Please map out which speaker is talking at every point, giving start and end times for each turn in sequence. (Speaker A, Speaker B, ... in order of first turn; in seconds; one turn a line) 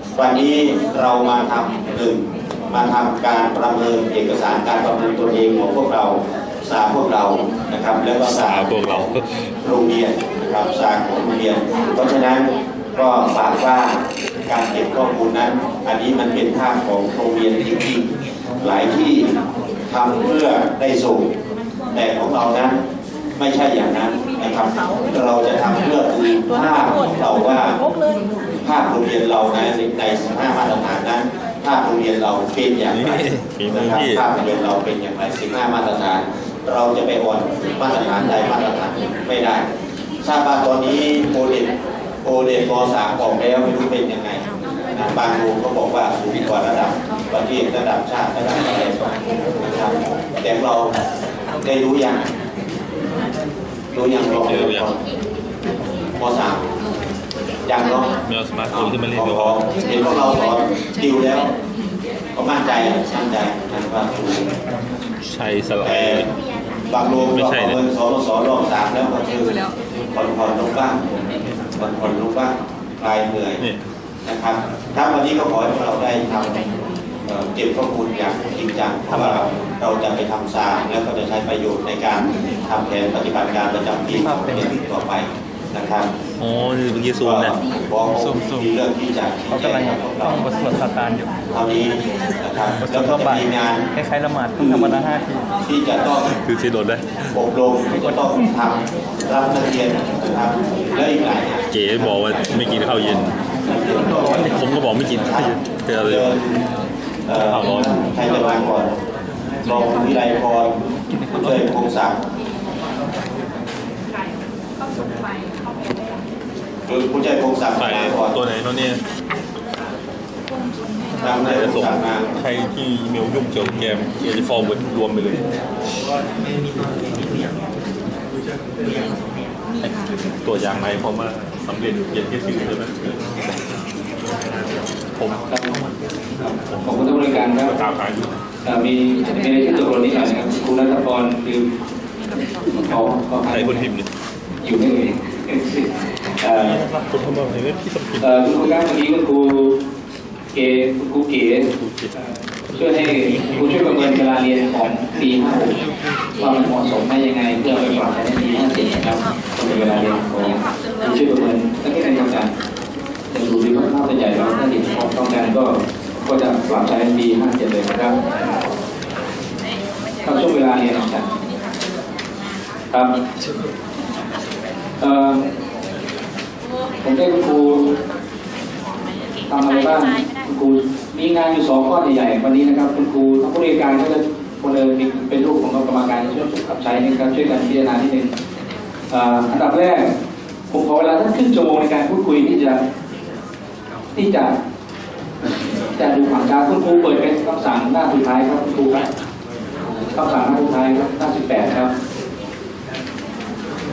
Speaker A: 0.1-9.1
Speaker B: 8.2-9.2
Speaker A: 9.6-18.1
Speaker A: 18.6-19.3
Speaker A: 19.9-21.3
Speaker A: 21.9-22.8
Speaker A: 23.4-27.8
Speaker A: 28.6-33.2
Speaker B: 32.9-34.3
Speaker A: 33.7-39.6
Speaker A: 40.2-41.7
Speaker A: 42.2-50.9
Speaker A: 51.6-52.2
Speaker A: 53.9-55.0
Speaker B: 54.4-54.9
Speaker A: 56.2-56.6
Speaker A: 57.6-58.1
Speaker B: 58.2-59.6
Speaker A: 58.7-61.5
Speaker A: 62.4-64.5
Speaker B: 65.2-66.3
Speaker A: 65.8-66.3
Speaker A: 66.9-69.5
Speaker B: 67.3-67.8
Speaker A: 70.1-71.0
Speaker A: 71.8-73.6
Speaker A: 74.2-76.7
Speaker A: 77.3-86.1
Speaker C: 79.1-79.4
Speaker C: 84.1-84.7
Speaker B: 86.4-87.6
Speaker A: 87.2-90.4
Speaker C: 88.2-88.7
Speaker C: 89.5-91.3
Speaker A: 91.5-93.9
Speaker C: 92.8-95.5
Speaker A: 94.6-95.0
Speaker A: 95.7-96.3
Speaker B: 96.3-97.0
Speaker A: 97.3-102.1
Speaker C: 98.0-98.5
Speaker B: 101.7-103.3
Speaker A: 103.7-106.6
Speaker C: 104.2-104.5
Speaker B: 104.3-106.4
Speaker A: 107.3-108.9
Speaker B: 107.4-108.0
Speaker A: 109.6-110.7
Speaker C: 111.1-111.7
Speaker A: 111.3-112.2
Speaker A: 116.9-118.3
Speaker B: 117.8-119.0
Speaker A: 121.2-122.3
Speaker B: 121.3-125.4
Speaker B: 129.8-133.5
Speaker B: 135.2-135.4
Speaker B: 136.7-138.3
Speaker D: 136.8-137.7
Speaker D: 138.6-141.7
Speaker D: 142.7-143.8
Speaker B: 143.5-144.1
Speaker D: 144.6-146.8
Speaker B: 146.6-148.7
Speaker D: 148.2-149.8
Speaker D: 150.5-151.7
Speaker B: 151.7-152.1
Speaker D: 152.7-155.7
Speaker D: 156.4-162.5
Speaker D: 163.3-168.2
Speaker D: 170.2-171.2
Speaker D: 175.0-175.4
Speaker D: 177.0-177.9
Speaker D: 179.5-188.3
Speaker D: 189.1-190.1
Speaker D: 190.7-192.8
Speaker D: 194.2-194.5
Speaker D: 195.9-199.1
Speaker D: 199.8-201.9